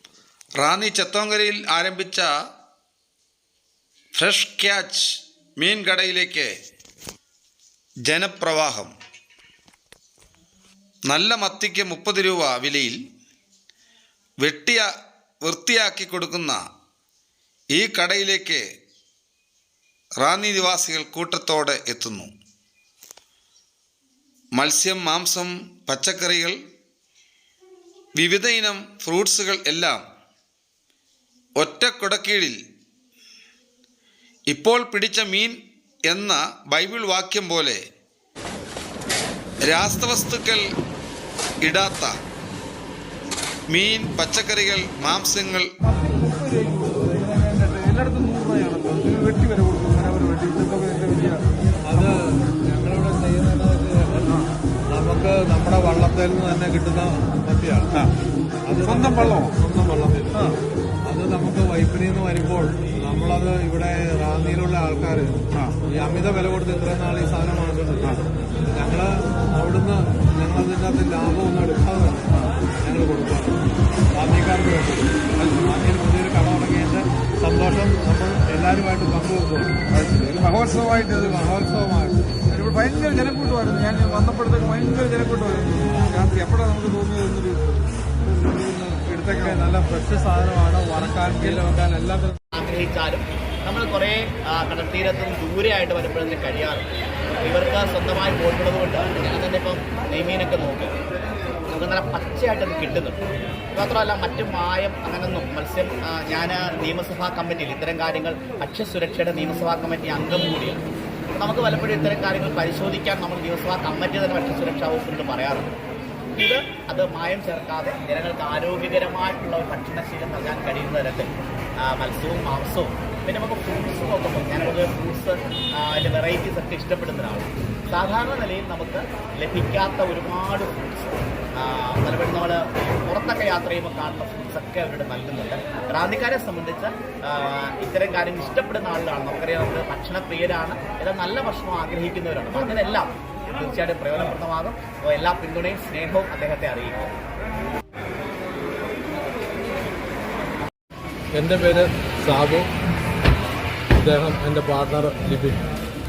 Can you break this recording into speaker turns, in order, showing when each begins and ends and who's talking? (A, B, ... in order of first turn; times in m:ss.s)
0:00.6-0:02.3 A
0:04.1-0:06.5 A
0:08.1-0:08.9 A
0:11.1-0:13.0 A
0:14.4-0:14.9 A
0:15.4-0:16.6 A
0:17.7-0:18.6 A
0:20.2-0:22.3 A
0:24.6-0:26.6 A
0:28.2-0:30.0 A
0:31.6-0:32.6 A
0:34.5-0:37.8 A
0:39.6-0:40.6 A
0:41.6-0:42.1 A
0:43.7-0:45.7 A
0:45.9-0:51.4 B
0:51.8-0:54.4 C
0:54.9-0:58.0 C
0:58.7-1:00.3 C
0:58.8-0:59.5 B
1:01.0-1:12.2 C
1:12.8-1:13.6 C
1:14.1-1:19.8 C
1:15.4-1:15.7 B
1:19.9-1:21.5 B
1:21.0-1:22.4 C
1:22.5-1:27.8 B
1:28.4-1:29.7 B
1:29.1-1:32.4 C
1:31.2-1:31.6 B
1:32.5-1:36.9 D
1:37.4-1:40.9 D
1:41.7-1:43.2 D
1:43.7-1:50.8 D
1:51.3-1:55.7 D
1:56.4-2:27.1 D
2:31.3-2:32.7 C
2:34.0-2:35.6 C